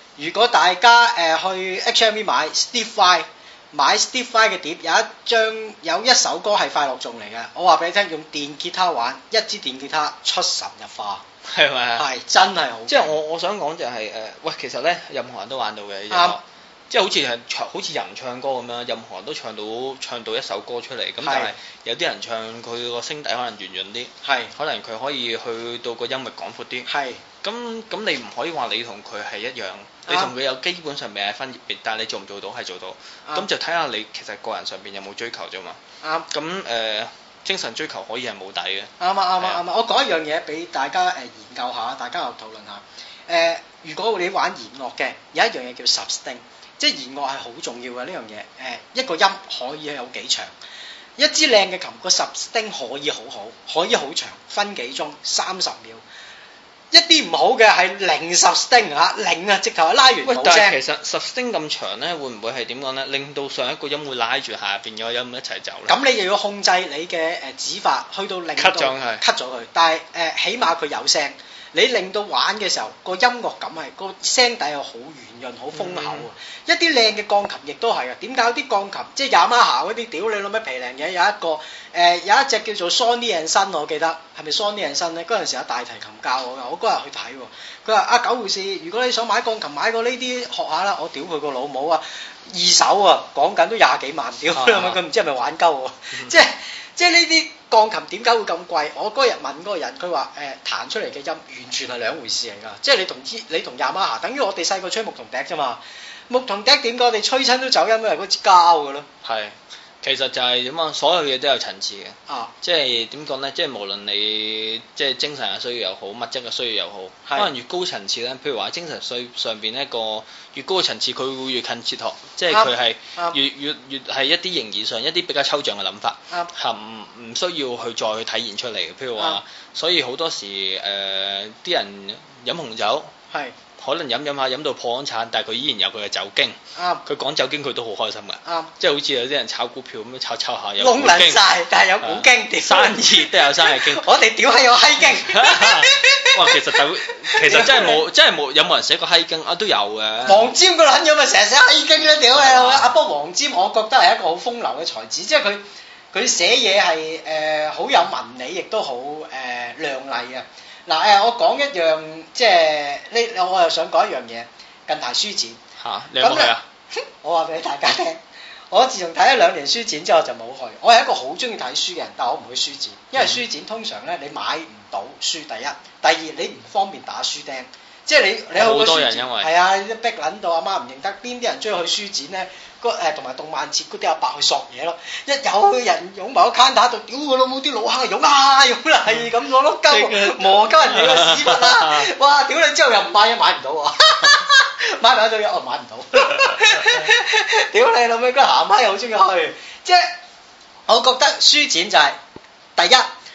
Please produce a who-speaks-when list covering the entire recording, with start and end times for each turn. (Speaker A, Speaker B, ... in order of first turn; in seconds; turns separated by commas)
Speaker A: 0.2-11.2, Speaker B: 11.5-12.1, Speaker A: 12.0-13.2, Speaker B: 12.9-26.9, Speaker A: 16.1-16.4, Speaker A: 21.2-21.5, Speaker A: 24.2-24.5, Speaker A: 26.9-27.2, Speaker B: 27.4-35.8, Speaker A: 30.1-30.3, Speaker A: 36.0-36.3, Speaker B: 36.3-39.6, Speaker A: 39.0-50.5, Speaker A: 51.2-56.0, Speaker A: 56.9-60.8, Speaker B: 60.2-66.0, Speaker A: 65.9-109.1, Speaker B: 68.5-69.2, Speaker B: 75.7-76.3, Speaker B: 94.5-95.0, Speaker B: 109.2-133.1, Speaker A: 112.3-112.5, Speaker A: 122.5-123.4, Speaker B: 133.8-141.4, Speaker A: 136.8-137.0, Speaker A: 138.4-138.7, Speaker A: 140.8-148.0, Speaker B: 142.0-144.0, Speaker B: 145.2-150.5, Speaker A: 150.2-155.6, Speaker B: 152.3-152.9, Speaker A: 156.1-165.6, Speaker B: 165.8-166.6, Speaker A: 166.2-168.2, Speaker A: 168.7-200.1, Speaker B: 178.5-179.5, Speaker B: 189.9-192.1, Speaker B: 196.3-197.1, Speaker A: 200.9-202.2, Speaker A: 202.8-203.1